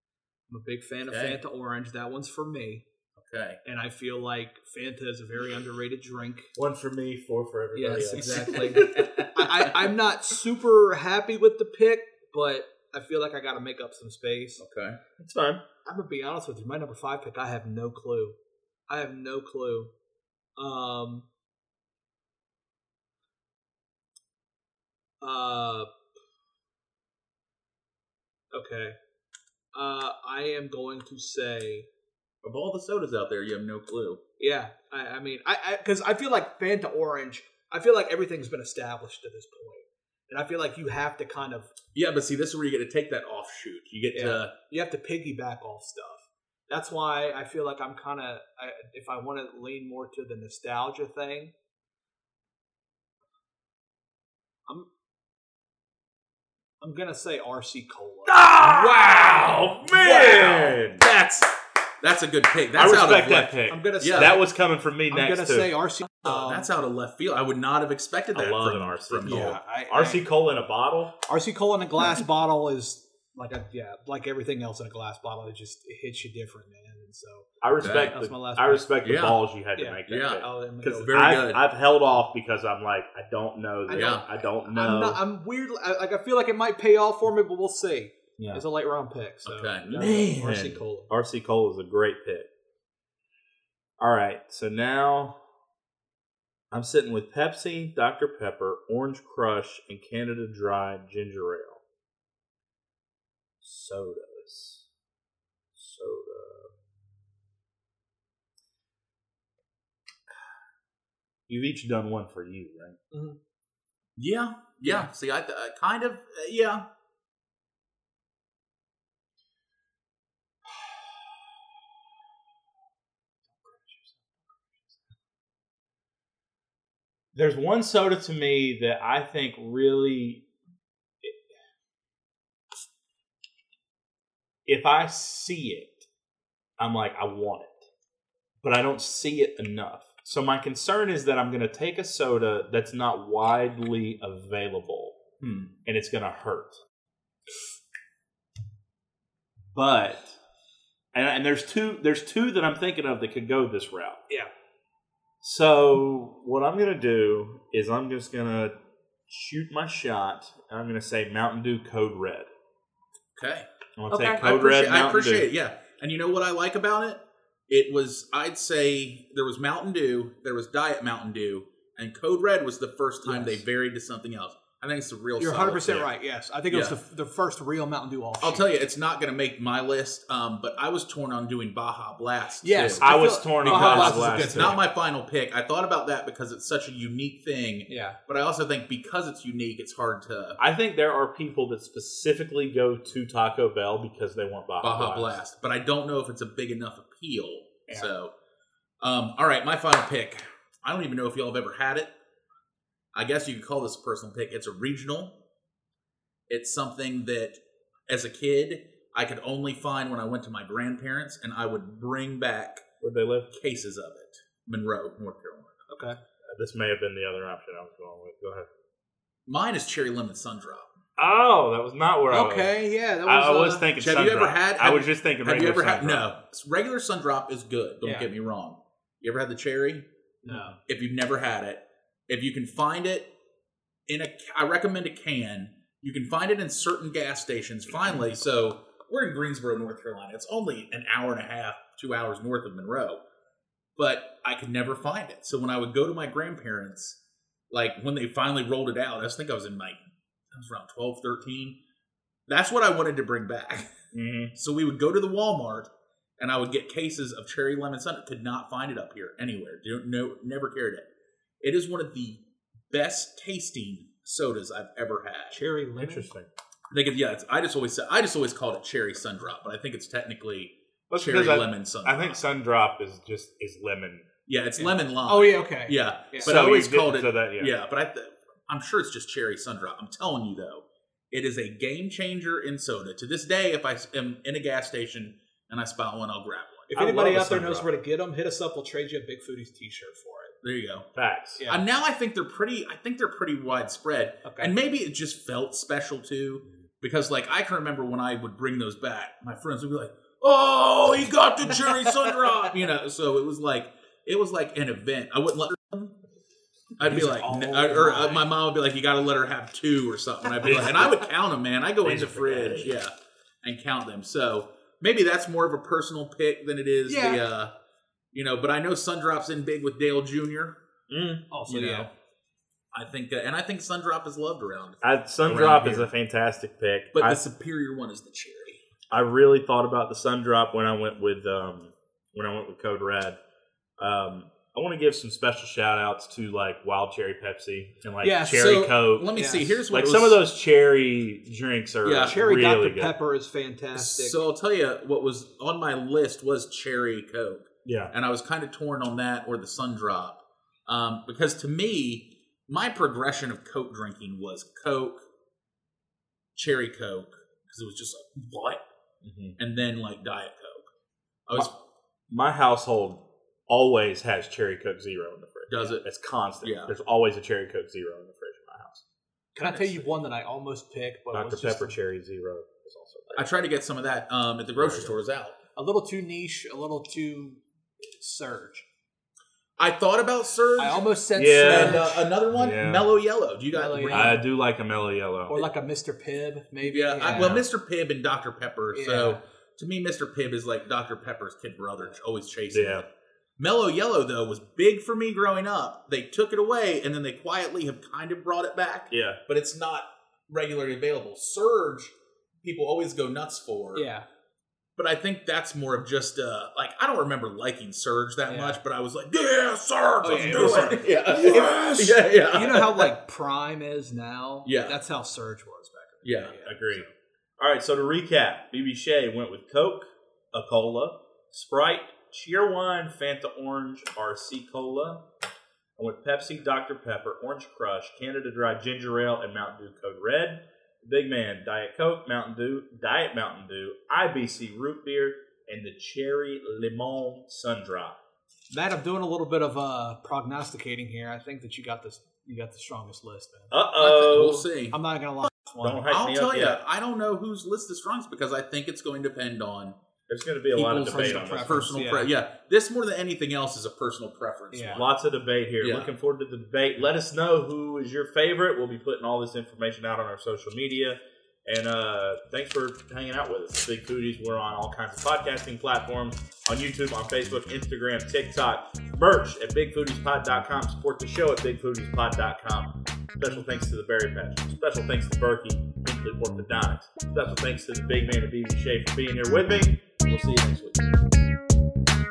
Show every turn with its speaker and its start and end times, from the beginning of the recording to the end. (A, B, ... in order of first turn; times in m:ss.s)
0:00.5-0:02.8 A
0:01.1-0:01.4 B
0:03.2-0:03.6 B
0:03.6-0:06.5 A
0:06.6-0:09.3 C
0:07.8-0:14.6 A
0:08.1-0:09.9 B
0:14.6-0:15.0 B
0:15.2-0:15.6 C
0:15.8-0:18.4 A
0:18.9-0:19.9 A
0:20.6-0:21.3 A
0:25.2-0:25.9 A
0:28.5-0:29.0 A
0:29.7-0:31.9 A
0:32.4-0:34.2 B
0:34.4-0:41.7 A
0:42.0-0:44.5 B
0:44.1-0:51.5 A
0:56.8-0:58.5 A
0:58.3-1:01.0 C
0:58.5-1:04.3 B
0:59.1-1:00.2 A
1:02.8-1:05.7 C
1:03.7-1:04.4 A
1:05.1-1:06.7 A
1:06.2-1:09.6 B
1:08.3-1:11.2 C
1:09.2-1:10.2 A
1:11.3-1:19.0 A
1:17.6-1:25.2 C
1:17.8-1:18.1 B
1:19.0-1:19.4 B
1:19.8-1:21.3 A
1:20.1-1:21.6 B
1:23.9-1:31.1 A
1:23.9-1:24.3 B
1:28.4-1:28.6 C
1:29.4-1:30.6 B
1:29.9-1:32.5 C
1:34.0-1:35.4 C
1:36.7-1:41.8 C
1:43.6-1:44.9 C
1:45.8-1:46.7 C
1:51.5-1:53.0 C
1:53.1-1:53.4 A
1:54.2-1:56.8 B
2:03.7-2:04.1 C
2:07.3-2:10.5 C
2:14.7-2:16.1 C
2:16.8-2:17.8 C
2:18.6-2:25.2 C
2:25.4-2:25.7 B
2:25.8-2:26.8 C
2:29.7-2:30.4 C
2:31.1-2:34.2 C
2:35.4-2:38.8 C
2:39.3-2:42.5 C
2:43.4-2:43.7 B
2:44.0-2:45.5 C
2:44.1-2:44.5 A
2:44.4-2:56.1 B
2:53.2-2:53.6 A
2:55.4-2:58.7 A
2:56.7-2:57.0 B
2:58.4-3:10.6 B
3:02.6-3:04.8 A
3:03.0-3:04.8 C
3:07.9-3:08.2 A
3:10.6-3:15.4 C
3:14.8-3:18.3 B
3:19.0-3:22.1 B
3:23.1-3:25.4 B
3:26.5-3:32.8 B
3:33.0-3:33.5 C
3:33.5-3:35.8 B
3:35.9-3:36.2 A
3:36.5-3:38.7 C
3:39.5-3:40.9 B
3:41.2-3:46.3 C
3:42.3-3:43.9 A
3:44.0-3:50.1 B
3:48.0-3:48.3 A
3:50.4-3:50.8 A
3:50.5-3:50.8 C
3:50.9-3:53.3 B
3:54.1-4:03.2 B
4:04.0-4:07.2 B
4:07.7-4:11.8 B
4:12.5-4:14.0 B
4:14.1-4:14.5 C
4:14.6-4:21.1 B
4:21.6-4:25.6 B
4:25.5-4:26.3 A
4:26.0-4:26.5 C
4:26.9-4:32.4 B
4:31.1-4:34.3 C
4:34.5-4:47.0 B
4:34.8-4:36.5 A
4:36.4-4:37.7 C
4:46.9-4:50.5 A
4:47.0-4:48.0 C
4:50.6-4:51.1 B
4:51.2-4:51.6 C
4:51.7-5:06.1 B
4:54.4-4:54.7 A
5:07.0-5:17.7 B
5:07.0-5:08.5 A
5:10.6-5:11.2 C
5:12.0-5:12.9 C
5:17.1-5:17.4 A
5:18.3-5:20.8 B
5:21.1-5:21.4 C
5:21.5-5:22.1 A
5:21.7-5:22.1 B
5:22.9-5:26.1 B
5:25.0-5:27.4 C
5:27.1-5:28.8 B
5:29.1-5:33.4 C
5:34.0-5:39.3 C
5:38.2-5:38.8 A
5:38.5-5:40.4 B
5:39.3-5:39.8 A
5:39.9-5:43.1 C
5:42.0-5:42.4 B
5:42.2-5:44.4 A
5:43.9-5:55.2 B
5:47.8-5:48.1 C
5:56.6-5:58.8 B
5:59.2-5:59.6 C
5:59.6-6:00.9 B
6:01.5-6:01.7 B
6:02.3-6:09.0 C
6:05.7-6:06.0 B
6:06.6-6:06.9 B
6:09.6-6:12.0 A
6:09.7-6:10.0 C
6:11.3-6:13.5 C
6:13.4-6:15.6 B
6:14.8-6:15.1 C
6:15.8-6:18.8 A
6:19.8-6:21.1 B
6:20.8-6:22.3 A
6:21.4-6:23.1 C
6:21.6-6:24.4 B
6:23.7-6:24.5 A
6:24.1-6:25.6 C
6:25.5-6:27.6 A
6:26.8-6:33.0 B
6:27.3-6:27.6 C
6:28.9-6:29.4 A
6:32.7-6:33.0 C
6:33.6-6:44.1 B
6:39.1-6:39.4 C
6:44.0-6:44.3 A
6:45.0-6:53.1 B
6:48.5-6:48.8 A
6:50.2-6:57.1 A
6:50.4-6:51.1 C
6:54.7-6:55.0 B
6:56.2-6:56.6 B
6:56.7-6:57.0 C
6:57.6-7:05.2 C
7:06.0-7:18.2 C
7:18.7-7:26.0 A
7:23.7-7:24.7 C
7:24.1-7:25.0 B
7:25.8-7:26.8 C
7:26.1-7:30.0 B
7:30.3-7:31.9 C
7:30.7-7:35.1 B
7:31.1-7:32.3 A
7:34.7-7:35.0 A
7:35.0-8:01.3 C
7:35.8-7:36.1 B